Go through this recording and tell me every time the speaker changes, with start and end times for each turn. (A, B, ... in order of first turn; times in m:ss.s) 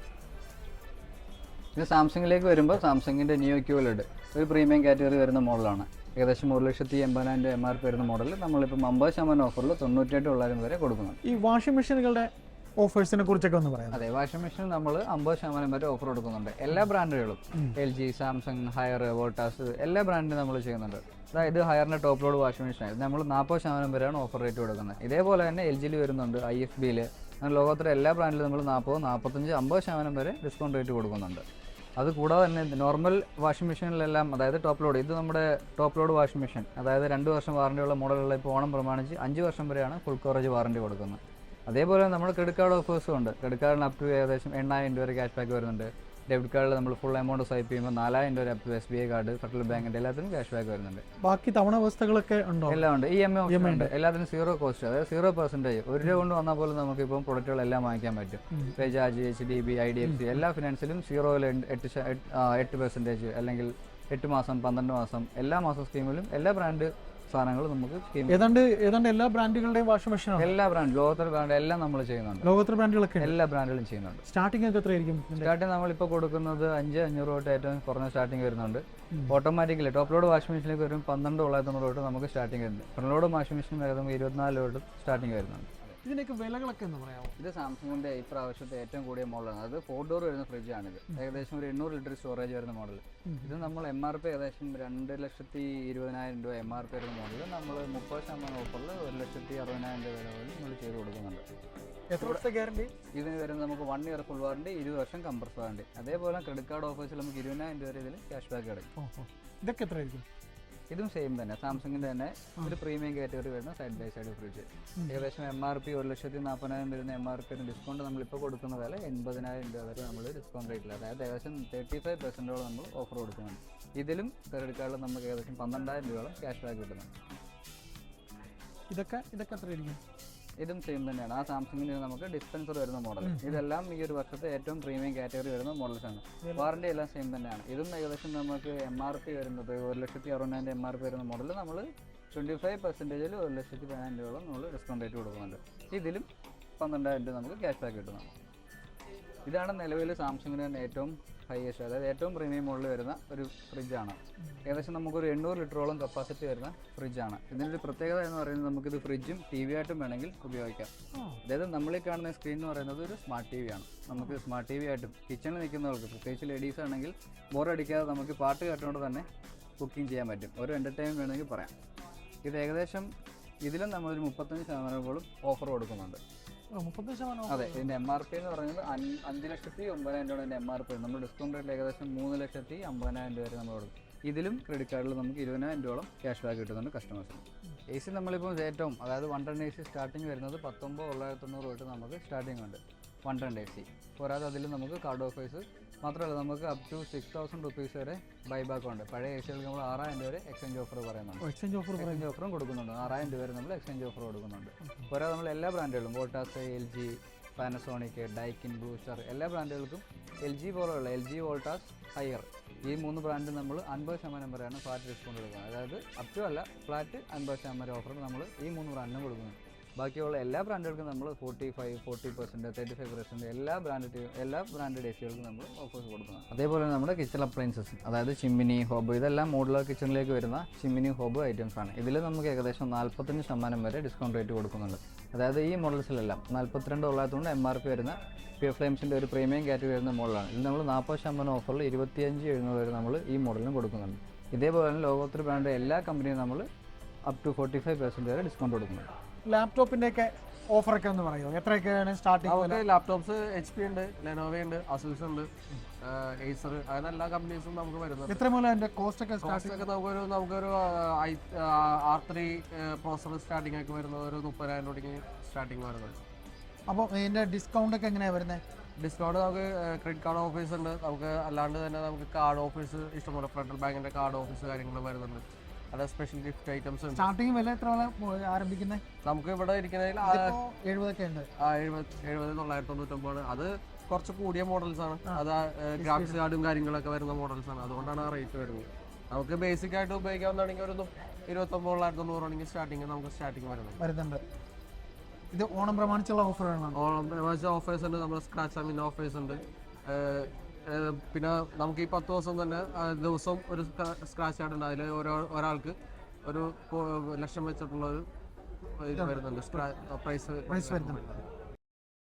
0:01.8-0:11.2 A
0:11.2-0:14.0 B
0:13.9-0:31.4 A
0:32.0-0:51.0 A
0:51.2-0:52.8 B
0:52.7-1:08.4 A
0:53.5-0:53.9 B
1:08.3-1:10.5 B
1:10.4-1:12.5 A
1:12.4-1:13.3 B
1:13.2-1:14.2 A
1:14.3-1:15.5 B
1:15.4-1:26.0 A
1:26.0-1:27.4 B
1:27.4-1:41.4 A
1:33.3-1:33.5 B
1:42.1-1:42.9 B
1:43.1-1:48.9 A
1:49.0-1:50.2 B
1:50.9-2:07.1 A
1:55.0-1:55.2 B
2:08.9-2:10.0 B
2:10.6-2:26.3 A
2:13.2-2:13.6 B
2:16.4-2:16.7 B
2:26.8-2:28.3 A
2:29.5-2:40.9 A
2:41.2-2:41.4 B
2:41.4-2:49.3 A
2:49.8-2:51.7 A
2:52.4-2:53.1 A
2:53.6-2:56.2 A
2:56.7-2:57.9 B
2:57.5-3:21.4 A
3:21.4-3:22.3 B
3:22.0-4:06.7 A
4:07.3-4:09.1 A
4:09.4-4:12.8 B
4:12.4-4:15.5 C
4:16.0-4:18.4 C
4:18.3-4:19.8 B
4:19.4-4:26.2 C
4:26.9-4:28.6 B
4:29.0-4:37.3 C
4:37.1-4:39.0 B
4:39.2-4:40.6 C
4:40.2-4:41.5 B
4:41.6-4:54.0 C
4:46.0-4:46.4 B
4:54.0-4:54.4 B
4:55.5-4:57.0 B
4:56.9-5:08.2 C
5:09.0-5:11.4 C
5:09.2-5:09.8 B
5:10.7-5:11.2 B